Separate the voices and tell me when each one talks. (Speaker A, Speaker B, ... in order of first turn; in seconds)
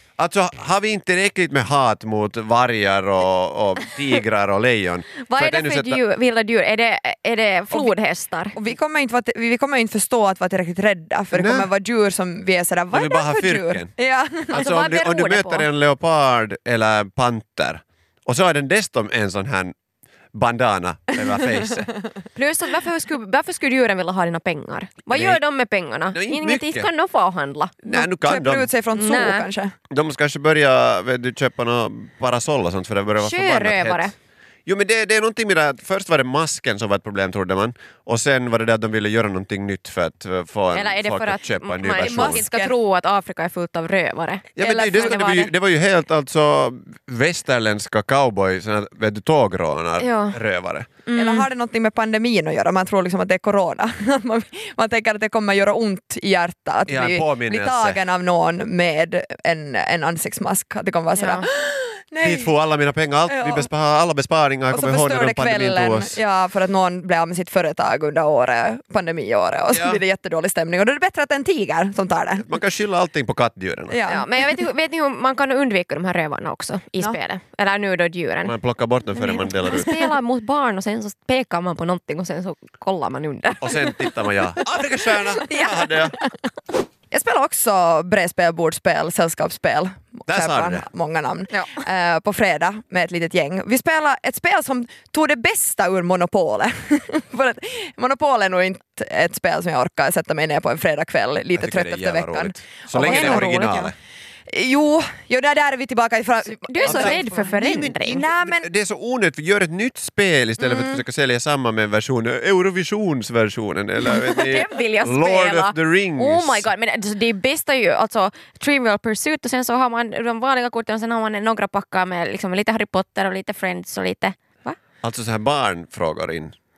Speaker A: 0.2-6.0, 11.3-11.7, 12.9-13.9, 14.5-19.7, 20.4-21.9, 25.1-25.4, 26.1-26.9, 27.8-28.7, 29.9-34.1, 34.7-42.4, 44.6-50.9, 56.9-58.0, 62.2-66.2, 69.7-70.0, 72.4-74.0, 78.5-80.0, 83.6-86.2, 90.3-90.9, 101.6-104.0, 106.8-116.7, 125.0-126.5
Speaker B: 5.3-8.6, 14.5-15.7, 22.4-27.8, 28.9-29.4, 33.2-34.1, 40.7-45.5, 50.0-50.4, 51.0-51.5, 61.2-61.5, 74.1-78.5, 79.1-84.0, 103.0-103.6, 106.6-108.3, 114.1-124.8
Speaker C: 8.6-14.6, 27.9-29.8, 42.0-42.7, 44.6-45.2, 51.2-62.5, 63.3-63.7, 64.7-72.5, 73.9-74.2, 87.1-103.9, 104.5-108.7, 110.6-111.0